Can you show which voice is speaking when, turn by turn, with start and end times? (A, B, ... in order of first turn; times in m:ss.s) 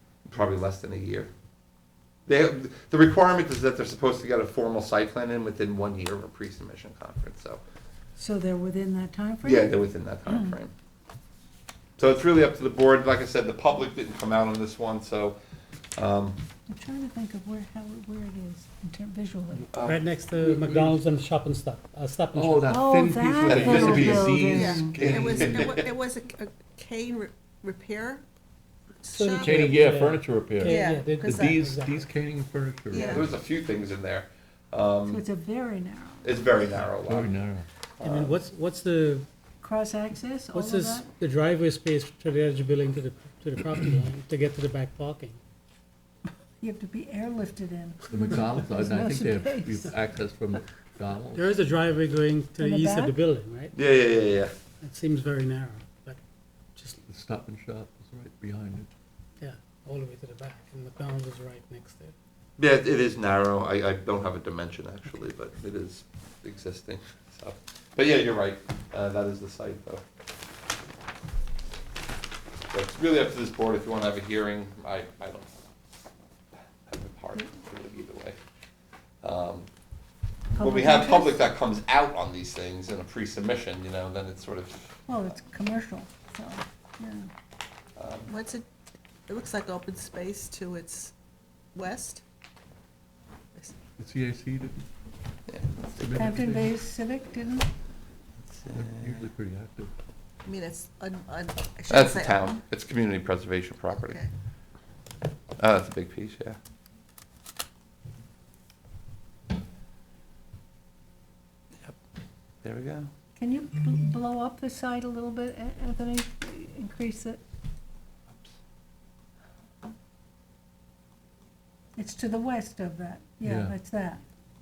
0:00.3-0:01.3 A
0:02.3-0:07.6 A
0:08.2-0:09.7 B
0:09.4-0:10.7 A
0:10.3-0:10.6 B
0:12.0-0:15.4 A
0:16.0-0:16.4 A
0:16.7-0:19.7 B
0:19.7-0:20.1 A
0:19.7-0:22.8 C
0:20.4-0:21.0 D
0:22.3-0:25.8 D
0:22.6-0:25.2 B
0:23.4-0:25.7 A
0:23.5-0:24.0 C
0:24.5-0:28.2 E
0:29.0-0:29.7 E
0:29.0-0:32.1 C
0:29.4-0:33.3 D
0:30.6-0:31.7 E
0:32.9-0:33.3 E
0:33.0-0:35.2 A
0:35.1-0:36.4 B
0:36.2-0:37.4 A
0:37.0-0:37.7 D
0:38.0-0:38.4 A
0:38.0-0:39.3 C
0:39.6-0:41.1 B
0:40.5-0:45.4 C
0:46.6-0:49.9 B
0:48.1-0:51.5 D
0:51.3-0:53.7 C
0:52.6-0:53.2 B
0:53.7-0:54.5 A
0:54.8-0:56.2 C
0:56.8-0:57.0 C
0:57.1-0:58.9 D
0:59.4-1:02.1 C
1:02.6-1:10.0 A
1:12.7-1:15.5 A
1:16.9-1:18.4 A
1:19.2-1:19.7 A
1:20.6-1:21.4 B
1:20.6-1:25.1 A
1:25.1-1:27.3 B
1:28.0-1:28.3 A
1:28.3-1:28.6 E
1:29.3-1:31.1 E
1:31.7-1:32.2 E
1:34.0-1:34.8 D
1:35.5-1:36.4 A
1:36.0-1:36.8 D
1:36.2-1:37.7 B
1:38.4-1:39.3 A
1:38.7-1:39.9 D
1:40.4-1:42.6 E
1:41.9-1:44.2 A
1:43.9-1:44.3 E
1:45.6-1:46.6 A
1:52.6-1:53.1 A
1:53.4-1:57.4 B
2:02.0-2:04.2 B
2:03.4-2:03.7 D